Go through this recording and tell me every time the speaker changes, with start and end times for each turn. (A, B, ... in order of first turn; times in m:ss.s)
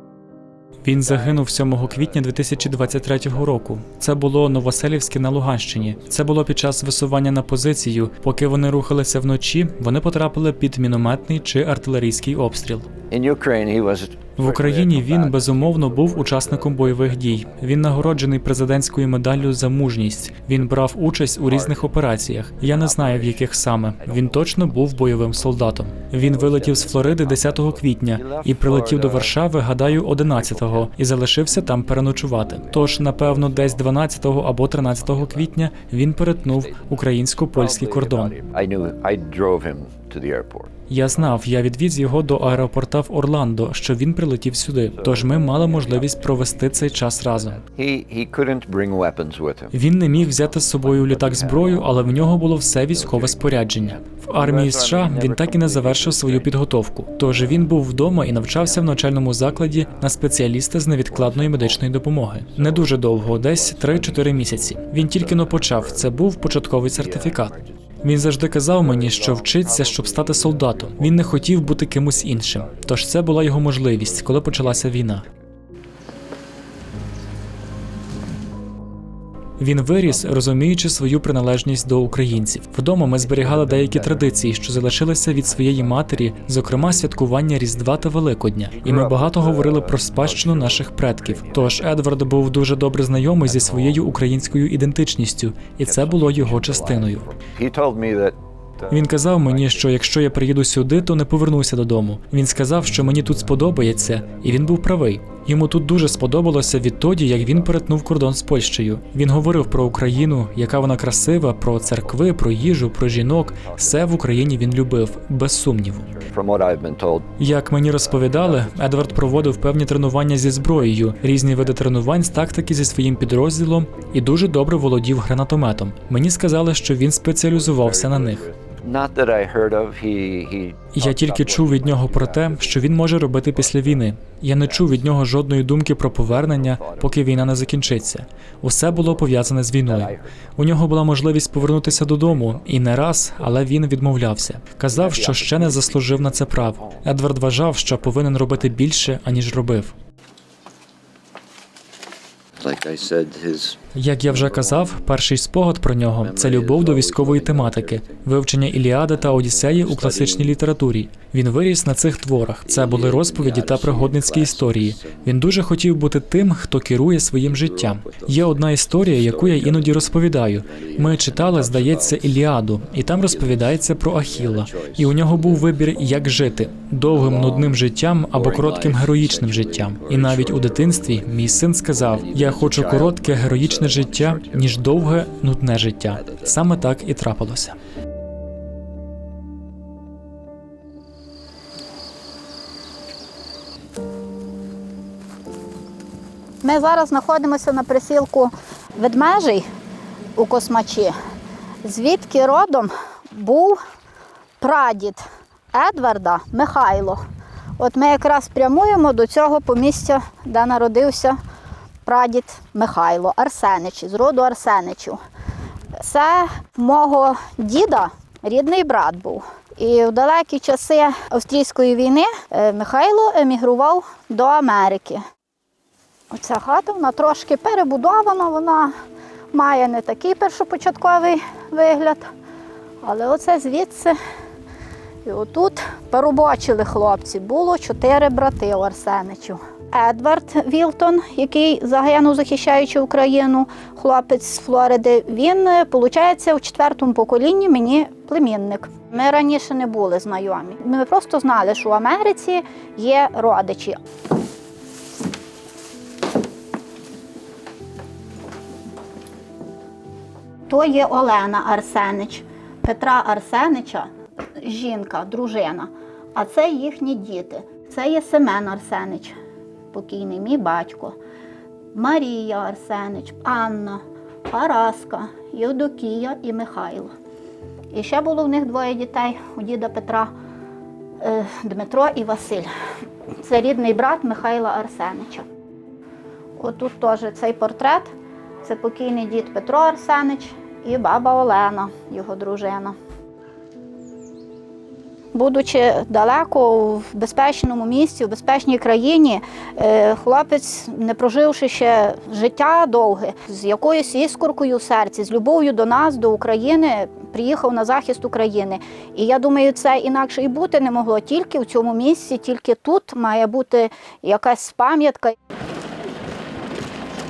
0:00.8-0:12.9 A
0:01.0-0:06.6 B
0:13.1-0:18.3 B
0:14.4-0:38.3 A
0:21.4-0:22.0 B
0:22.6-0:25.6 B
0:26.1-0:30.9 B
0:32.3-0:33.9 B
0:34.6-0:35.6 B
0:36.4-0:41.4 B
0:40.9-0:47.6 A
0:42.4-0:42.6 B
0:44.9-0:56.6 B
0:49.7-1:15.2 A
0:58.4-1:00.1 B
1:01.1-1:01.9 B
1:02.4-1:06.2 B
1:06.8-1:08.0 B
1:08.7-1:15.5 B
1:19.6-1:37.3 A
1:20.0-1:20.6 B
1:22.0-1:22.5 B
1:23.2-1:24.3 B
1:25.2-1:28.0 B
1:28.7-1:32.2 B
1:33.4-1:34.2 B
1:35.8-1:41.1 B
1:38.9-1:56.1 A
1:43.4-1:44.8 B
1:47.0-1:47.8 B
1:50.1-1:50.7 B
1:51.7-1:55.0 B
1:56.0-1:59.8 B
1:57.4-2:08.4 A
2:00.5-2:02.4 B
2:03.6-2:04.2 B
2:07.4-2:15.2 B
2:10.9-2:29.9 A
2:16.2-2:18.0 B
2:18.8-2:20.5 B
2:21.4-2:23.6 B
2:24.9-2:27.2 B
2:27.8-2:28.8 B
2:32.6-2:35.2 B
2:33.9-3:07.8 A
2:36.1-2:38.4 B
2:39.0-2:40.6 B
2:42.6-2:45.5 B
2:47.4-2:55.8 B
2:57.1-3:05.4 B
3:06.1-3:06.8 B
3:16.6-3:19.6 C
3:20.4-3:21.1 C
3:21.8-3:23.8 C
3:24.6-3:25.2 C
3:25.7-3:27.2 C
3:27.8-3:31.4 C
3:32.0-3:35.2 C
3:36.0-3:45.2 C
3:46.3-3:48.9 C
3:49.5-3:52.2 C
3:53.0-3:54.1 C
3:55.2-4:14.0 C
4:20.7-4:29.3 C
4:29.9-4:31.2 C
4:31.9-4:37.1 C
4:37.9-4:40.3 C
4:41.2-4:42.7 C
4:43.4-4:45.4 C
4:46.6-4:48.1 C
4:48.6-4:52.9 C
4:55.3-5:15.3 C